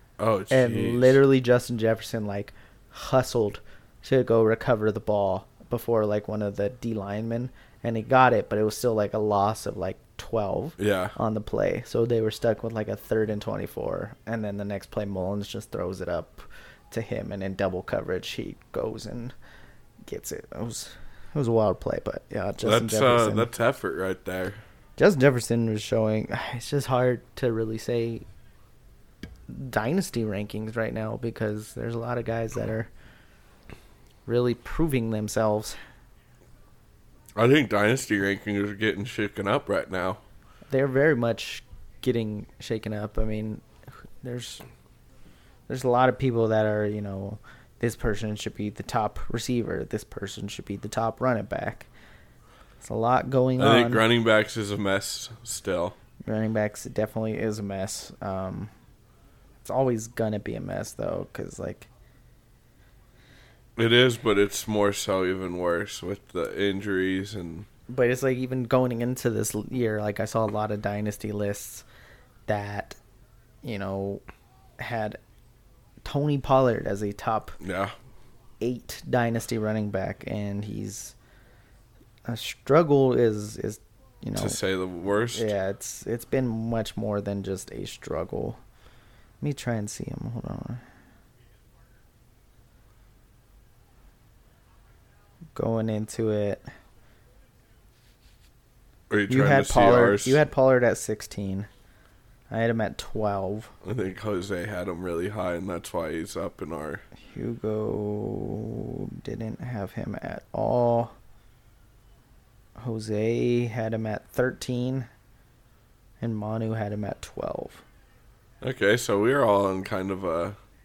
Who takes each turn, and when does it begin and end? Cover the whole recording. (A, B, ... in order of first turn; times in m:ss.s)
0:00.2-0:01.2 A
0:00.5-0:19.3 B
0:10.8-0:11.1 A
0:20.1-0:23.5 B
0:22.6-0:24.6 A
0:25.0-0:28.2 B
0:29.5-0:32.9 B
0:34.2-0:35.8 B
0:37.4-0:40.2 A
0:40.7-0:44.6 B
0:45.7-0:51.9 B
0:52.8-0:54.0 B
0:53.6-0:56.0 A
0:56.2-0:58.7 B
0:59.6-1:01.9 B
1:03.8-1:07.7 A
1:07.9-1:11.8 B
1:12.5-1:13.0 B
1:13.6-1:14.2 B
1:14.8-1:15.2 B
1:16.0-1:17.6 B
1:17.6-1:17.9 A
1:18.6-1:21.2 B
1:22.2-1:24.6 B
1:24.4-1:25.5 A
1:25.3-1:28.6 B
1:29.4-1:30.8 B
1:35.5-1:36.6 B
1:39.1-1:40.4 A
1:39.3-1:41.7 B
1:42.5-1:43.7 B
1:43.8-1:47.0 A
1:47.3-1:51.1 B
1:52.8-1:55.1 B
1:56.2-1:57.8 B
1:58.6-2:00.6 A